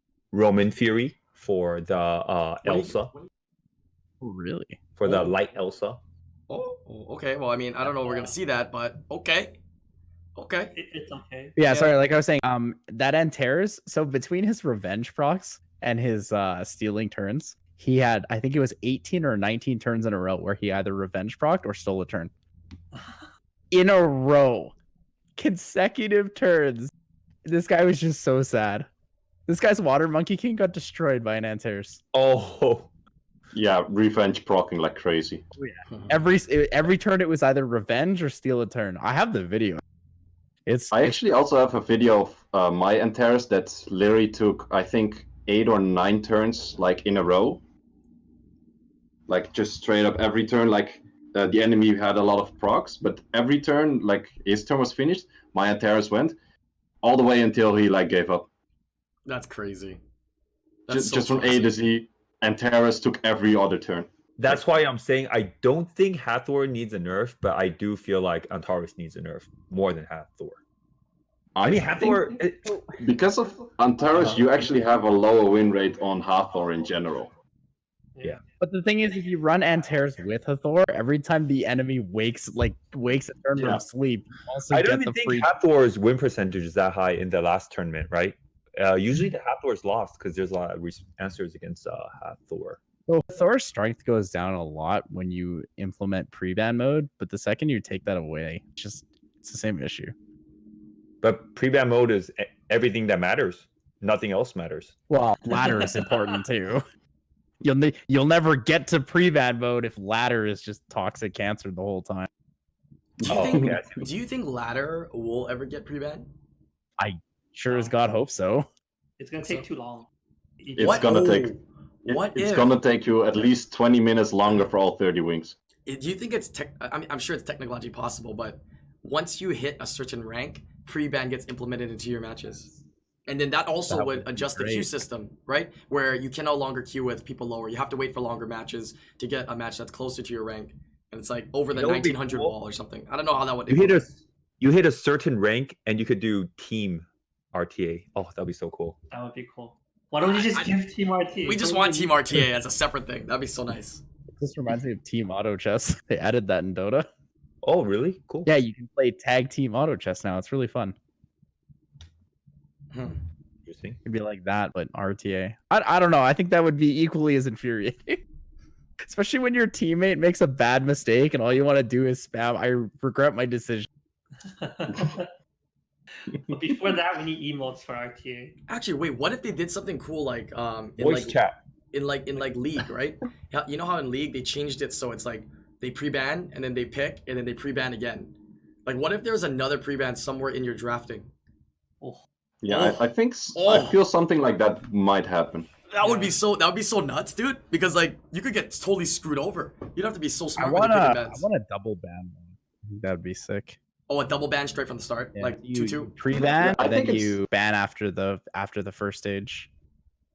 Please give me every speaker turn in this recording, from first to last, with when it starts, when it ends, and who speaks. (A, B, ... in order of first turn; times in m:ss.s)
0:00.3-0:03.1 A
0:02.6-0:03.1 B
0:04.2-0:04.8 C
0:05.0-0:06.0 A
0:05.0-0:05.3 B
0:06.5-0:09.6 B
0:07.9-0:08.3 D
0:10.4-0:10.8 B
0:10.8-0:11.6 D
0:11.6-0:22.3 C
0:11.7-0:11.9 B
0:22.9-0:23.3 D
0:23.7-0:24.7 C
0:25.4-0:26.9 C
0:27.5-0:28.9 C
0:29.5-0:32.0 C
0:32.1-0:32.9 A
0:33.5-0:35.4 E
0:35.6-0:39.8 C
0:35.9-0:36.2 B
0:40.7-0:41.2 C
0:40.9-0:47.6 E
0:49.3-0:56.4 E
0:57.0-0:58.5 E
0:59.3-1:00.0 B
1:00.9-1:01.8 B
1:00.9-1:04.1 E
1:04.4-1:10.6 A
1:11.6-1:12.4 E
1:11.6-1:12.8 A
1:12.9-1:17.3 E
1:18.2-1:18.4 D
1:18.6-1:25.5 C
1:23.6-1:23.8 E
1:24.7-1:32.8 A
1:33.1-1:40.1 C
1:41.2-1:45.0 A
1:45.1-1:46.8 C
1:45.6-1:46.1 D
1:47.6-1:52.3 C
1:53.2-1:53.8 E
1:53.2-1:56.3 B
1:53.3-1:54.1 A
1:57.0-1:58.7 C
1:59.2-2:00.1 D
2:00.6-2:01.2 D
2:00.8-2:01.5 E
2:00.8-2:02.8 B
2:02.1-2:05.6 E
2:05.9-2:12.7 B
2:13.3-2:24.1 B
2:13.9-2:14.9 C
2:21.7-2:22.5 A
2:23.7-2:29.0 A
2:29.1-2:32.2 D
2:30.2-2:30.8 B
2:31.4-2:34.0 B
2:34.3-2:37.1 C
2:37.6-2:38.5 A
2:38.5-2:41.0 C
2:42.9-2:43.2 B
2:43.7-2:44.0 A
2:44.0-2:48.2 C
2:49.0-2:53.9 C
2:54.4-2:55.3 D
2:56.2-2:58.5 D
2:58.7-3:01.4 B
3:01.0-3:01.6 A
3:01.9-3:08.3 B
3:08.9-3:11.3 B
3:12.6-3:15.7 E
3:12.7-3:14.0 B
3:15.9-3:21.4 B
3:16.0-3:16.4 D
3:20.6-3:23.8 C
3:24.1-3:26.1 B
3:25.4-3:29.7 C
3:26.4-3:27.4 E